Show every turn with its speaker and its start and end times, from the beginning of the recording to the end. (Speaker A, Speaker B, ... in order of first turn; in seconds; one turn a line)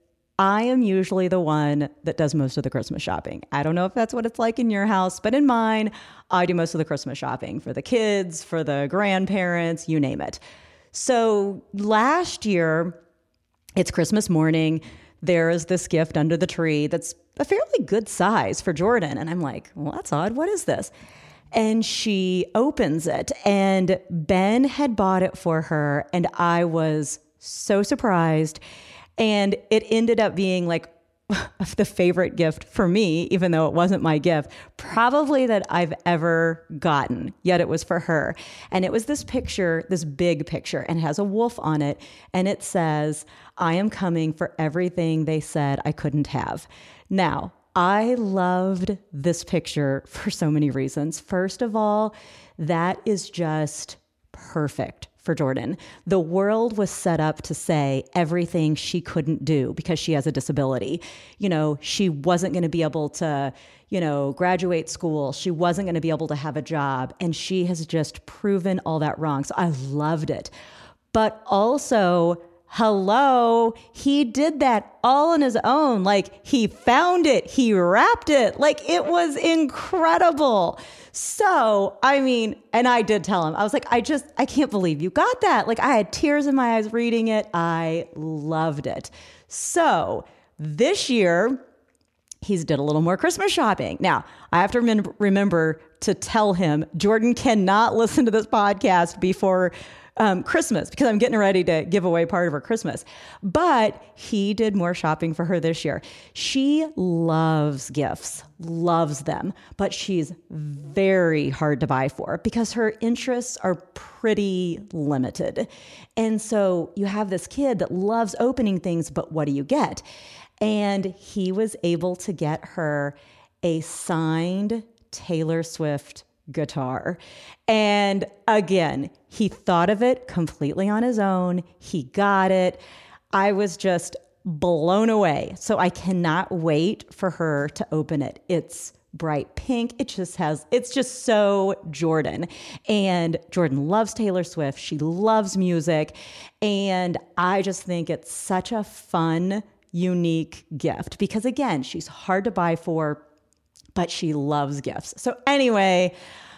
Speaker A: 0.4-10.4
Speaker A: 10.9-13.0
Speaker A: 13.8-20.9
Speaker A: 21.5-28.6
Speaker A: 29.2-70.5
Speaker A: 71.1-91.6
Speaker A: 92.4-120.0
Speaker A: 120.6-132.8
Speaker A: 133.3-153.2
Speaker A: 153.9-156.1